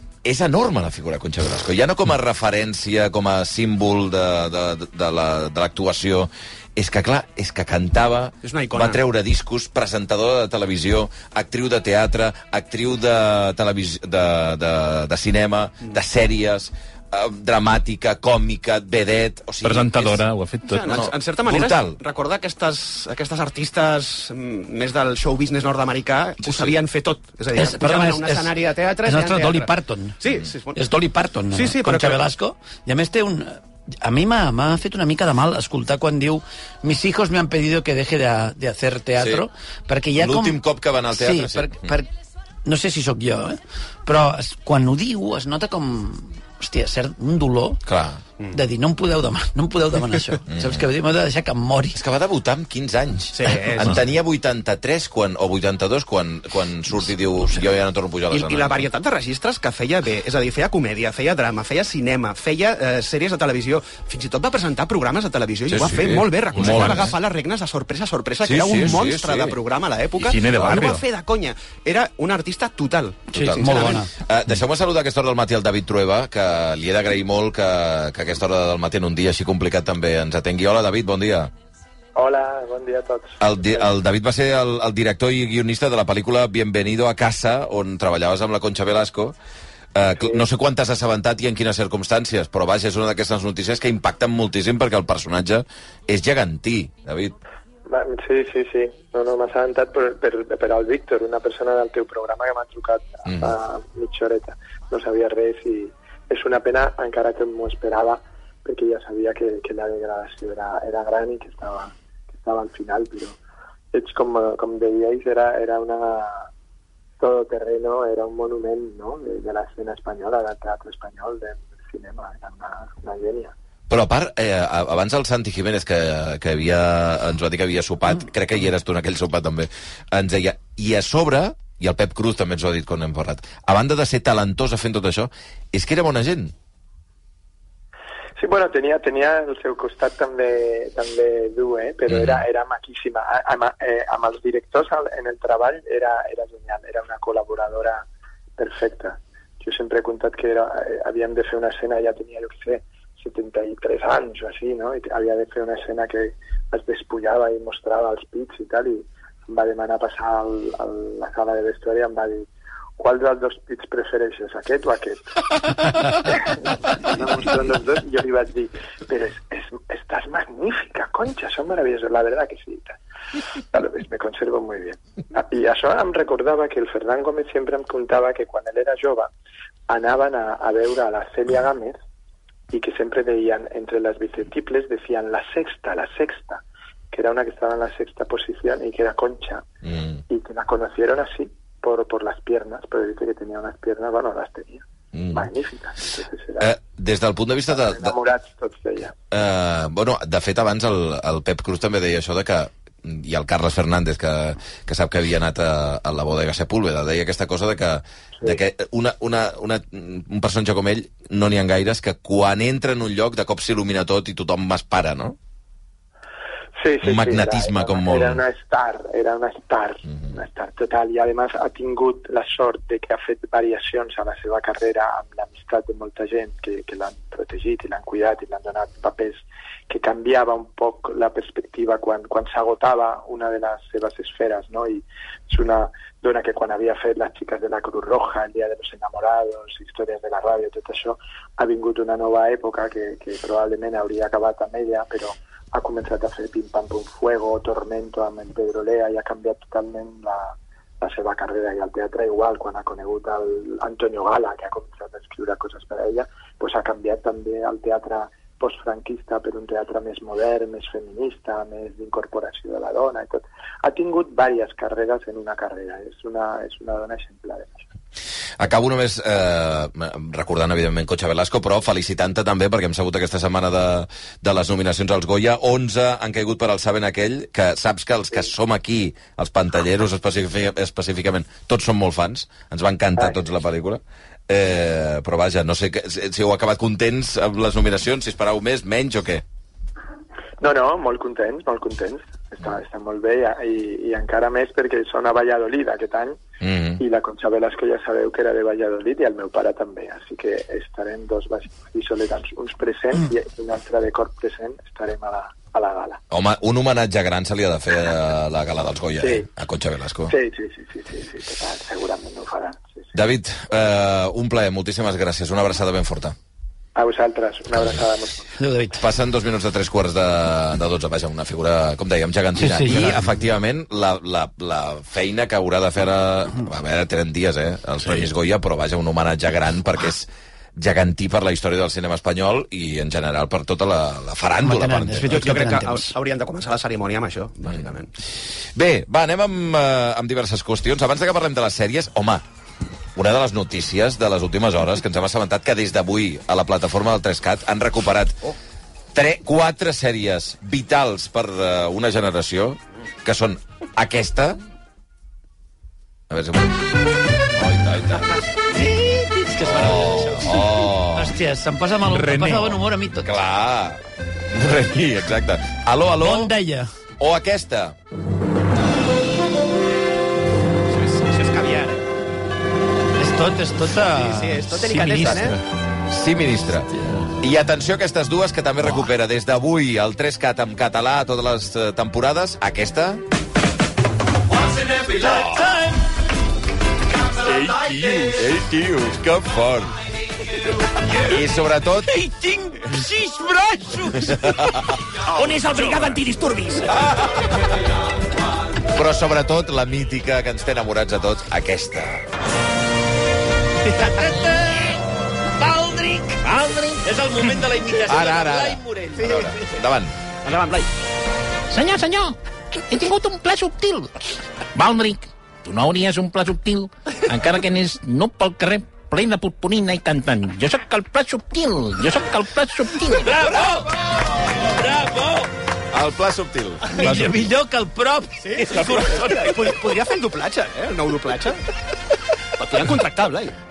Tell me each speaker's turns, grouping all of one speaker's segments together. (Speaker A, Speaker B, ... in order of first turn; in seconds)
Speaker A: 0.2-20.2, 20.9-22.0, 26.4-26.8, 39.2-39.5, 40.2-42.0, 47.9-48.2, 50.5-50.9, 52.0-58.9, 65.7-67.2, 68.4-69.6, 73.3-81.5, 83.4-89.3, 90.0-97.3, 103.2-103.6, 123.9-136.5, 142.1-142.4, 189.9-190.2, 195.1-195.5, 196.6-198.2, 199.3-215.4, 217.0-218.4, 268.6-289.4, 296.6-297.0, 306.3-310.4, 313.1-316.4, 317.7-318.1, 319.0-335.4, 338.8-342.4, 343.1-348.5, 349.1-354.6, 356.3-356.9, 357.5-358.4, 359.6-361.4, 363.2-366.5, 367.2-368.0, 376.1-376.9, 377.4-383.2, 388.4-389.9, 391.1-392.1, 394.3-395.0, 398.9-402.2, 408.0-410.1, 425.9-426.9
Speaker B: 8.4-9.0, 20.7-30.8, 31.5-32.2, 53.4-54.0, 58.3-74.0, 335.3-338.1, 370.9-372.1, 373.9-375.6, 395.3-397.1, 409.2-409.5, 410.4-410.9, 428.7-431.6, 432.6-433.6
Speaker C: 19.6-20.9, 65.8-67.2, 70.2-71.0, 362.1-362.8, 387.4-388.4, 411.7-412.4, 412.9-414.1, 414.8-423.3
Speaker D: 27.6-28.5, 29.1-30.2, 30.8-42.1, 42.6-47.8, 48.5-52.0, 73.3-74.1, 318.6-319.0, 322.6-323.2, 334.6-336.1, 358.7-363.4, 366.2-366.9, 373.2-375.5, 385.2-386.0, 392.1-394.6, 403.9-409.4, 423.1-425.5, 427.0-429.7
Speaker E: 82.2-83.9, 97.9-113.4, 113.9-116.5, 117.2-123.5, 138.4-148.1, 148.6-173.0, 173.7-179.3, 179.9-182.0, 182.7-189.6, 190.3-196.7, 197.8-199.1, 216.8-267.8, 290.6-296.4, 297.0-306.2, 309.2-309.5, 310.3-313.1, 317.0-318.5